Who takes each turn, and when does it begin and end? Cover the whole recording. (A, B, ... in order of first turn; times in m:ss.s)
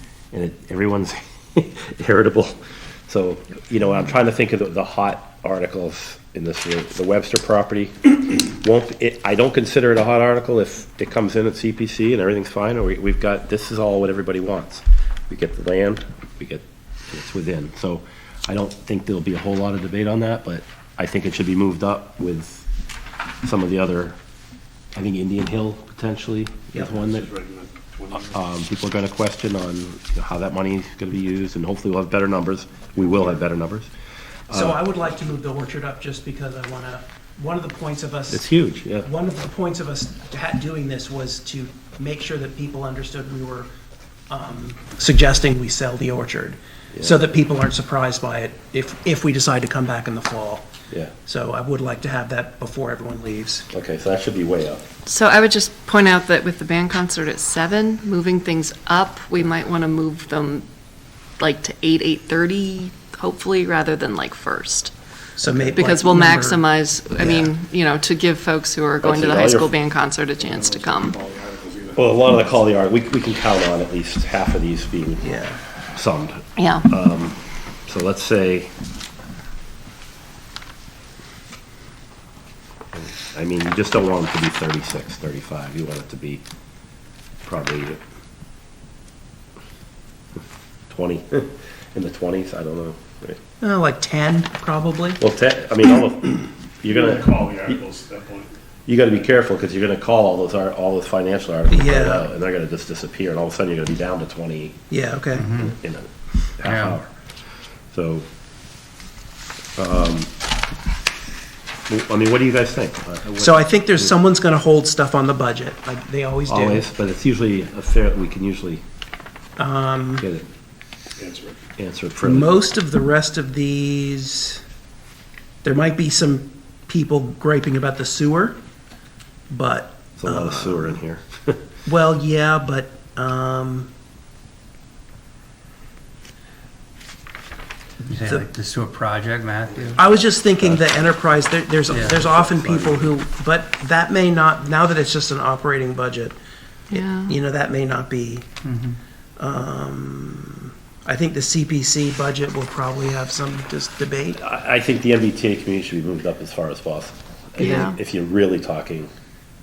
0:00.3-0:22.7 A
0:23.4-0:24.2 A
0:24.9-0:27.3 A
0:26.7-0:28.4 B
0:28.3-0:33.9 A
0:34.5-0:34.8 A
0:34.5-0:38.4 C
0:38.3-0:39.1 A
0:39.0-0:43.7 C
0:44.3-0:50.7 C
0:51.2-0:53.7 C
0:53.7-0:54.8 A
0:55.1-1:00.7 D
1:01.4-1:04.9 D
1:05.4-1:07.5 C
1:05.5-1:11.1 D
1:09.0-1:09.7 A
1:10.4-1:12.6 B
1:12.0-1:15.3 A
1:15.2-1:15.6 C
1:16.0-1:18.7 A
1:16.6-1:16.9 D
1:22.9-1:26.4 A
1:27.4-1:28.0 A
1:30.9-1:33.4 A
1:33.6-1:35.2 C
1:35.2-1:37.5 A
1:36.8-1:38.5 B
1:38.9-1:44.8 A
1:41.7-1:42.3 C
1:44.9-1:45.5 C
1:45.4-1:45.8 E
1:45.6-1:47.1 A
1:46.6-1:47.0 E
1:47.9-1:48.3 A
1:49.8-1:50.3 A
1:51.9-1:54.1 A
1:53.4-1:56.8 C
1:56.5-1:58.8 A
1:59.6-2:00.3 C
2:00.2-2:00.5 A
2:01.2-2:01.6 B
2:01.8-2:02.6 A
2:02.2-2:04.6 C
2:05.6-2:08.6 C
2:09.5-2:11.0 C
2:10.2-2:11.6 A
2:11.8-2:13.9 C
2:18.0-2:20.1 E
2:20.0-2:26.4 C
2:21.9-2:22.3 E
2:22.3-2:23.1 A
2:26.9-2:27.4 D
2:26.9-2:28.4 C
2:28.6-2:29.0 E
2:29.4-2:34.4 C
2:34.3-2:39.1 A
2:37.6-2:38.0 D